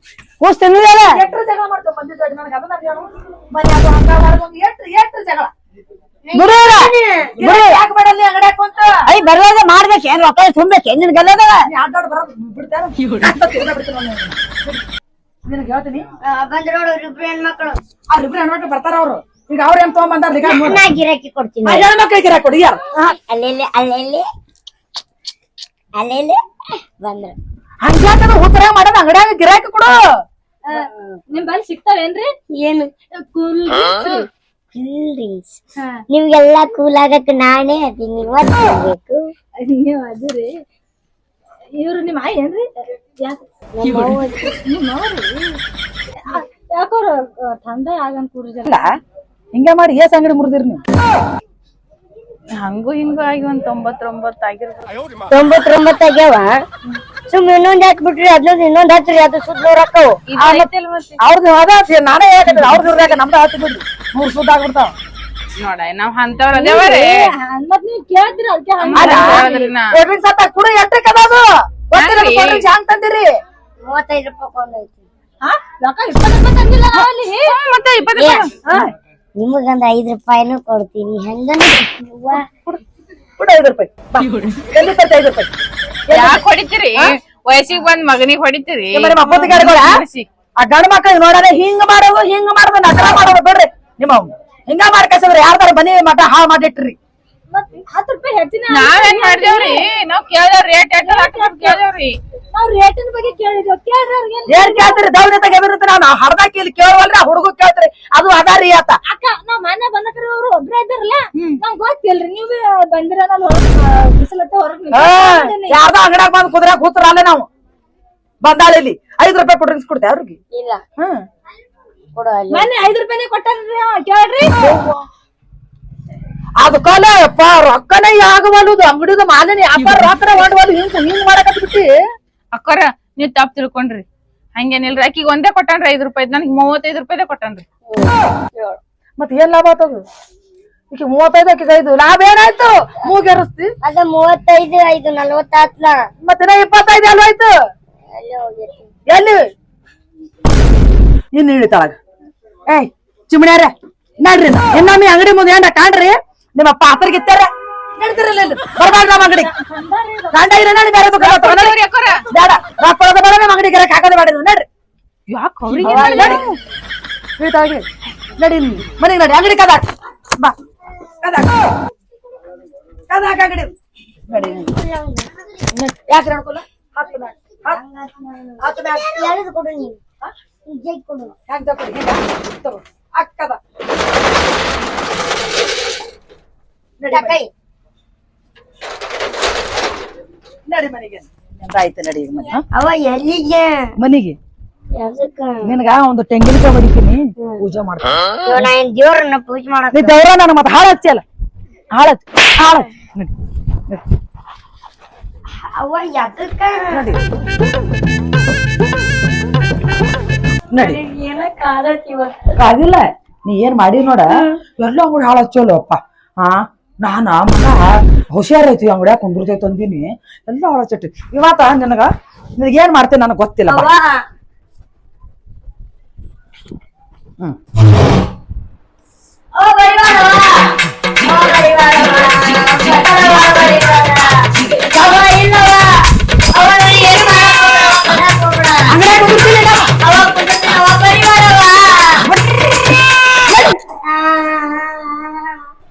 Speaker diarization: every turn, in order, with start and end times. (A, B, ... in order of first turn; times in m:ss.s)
0:00.4-0:01.2 A
0:01.0-0:05.5 B
0:06.3-0:07.4 C
0:06.4-0:07.8 A
0:07.4-0:09.0 B
0:09.1-0:11.7 A
0:11.7-0:14.8 B
0:15.5-0:16.0 B
0:16.3-0:17.8 C
0:18.1-0:20.8 B
0:20.4-0:21.9 C
0:21.7-0:23.1 B
0:23.3-0:24.3 C
0:26.0-0:26.4 C
0:27.0-0:27.4 C
0:27.8-0:30.0 B
0:30.7-0:32.3 D
0:32.6-0:32.9 C
0:33.1-0:34.3 D
0:34.7-0:35.6 C
0:36.1-0:39.3 C
0:39.6-0:40.5 D
0:41.8-0:42.7 D
0:43.2-0:45.6 D
0:43.8-0:44.2 C
0:46.3-0:48.8 D
0:49.5-0:50.8 B
0:52.6-0:55.0 E
0:55.3-0:56.5 C
0:57.3-1:00.2 C
1:00.3-1:01.2 E
1:00.4-1:00.7 B
1:01.2-1:04.9 B
1:05.6-1:07.3 E
1:06.5-1:09.7 D
1:08.8-1:10.0 E
1:09.0-1:13.3 B
1:12.0-1:12.7 E
1:13.9-1:15.1 C
1:15.4-1:17.6 D
1:16.9-1:18.5 E
1:18.2-1:18.5 C
1:19.4-1:22.4 C
1:23.4-1:25.5 B
1:26.1-1:26.4 B
1:26.1-1:30.3 E
1:28.9-1:30.0 B
1:30.6-1:37.0 B
1:37.5-1:39.8 D
1:38.7-1:42.2 E
1:41.0-1:41.8 D
1:42.5-1:45.0 D
1:44.5-1:49.0 B
1:49.1-1:55.8 D
1:54.9-1:57.5 B
1:58.4-2:00.4 B
2:00.5-2:00.8 C
2:02.2-2:02.7 C
2:02.5-2:04.5 D
2:04.6-2:04.9 B
2:06.6-2:11.9 B
2:12.5-2:14.0 E
2:14.6-2:17.6 E
2:17.9-2:18.8 C
2:19.2-2:20.0 B
2:20.9-2:23.7 B
2:23.8-2:26.0 C
2:26.2-2:27.5 B
2:28.1-2:28.9 C
2:29.1-2:29.4 B
2:31.3-2:32.0 B
2:32.7-2:39.5 B
2:38.8-2:40.5 D
2:40.3-2:41.8 B
2:41.2-2:42.2 E
2:42.3-2:44.7 B
2:45.3-2:46.4 E
2:45.8-2:46.4 C
2:45.9-2:46.3 D
2:45.9-2:46.6 B
2:47.4-2:49.8 B
2:51.2-2:51.5 B
2:53.1-2:53.7 B
2:54.3-2:54.7 B
2:54.4-2:55.3 C
2:55.8-2:57.8 B
2:57.7-3:00.0 C
2:58.6-2:59.4 B
3:00.7-3:01.3 C
3:01.5-3:03.6 B
3:07.0-3:07.4 B
3:07.1-3:07.5 C
3:10.7-3:12.6 B
3:12.7-3:13.9 C
3:14.0-3:14.4 B
3:15.0-3:15.7 C
3:15.6-3:18.7 B
3:18.5-3:20.1 C
3:19.9-3:21.2 B
3:21.9-3:23.3 B
3:25.6-3:27.0 C
3:26.9-3:27.2 B
3:30.7-3:31.0 B
3:30.8-3:32.4 C
3:32.6-3:43.9 B
3:34.3-3:34.6 C
3:43.7-3:44.2 C
3:49.6-3:55.9 C
3:56.5-3:59.0 C
3:58.9-3:59.9 B
4:00.0-4:02.2 C
4:02.2-4:02.6 B
4:03.5-4:03.8 B
4:04.1-4:05.6 C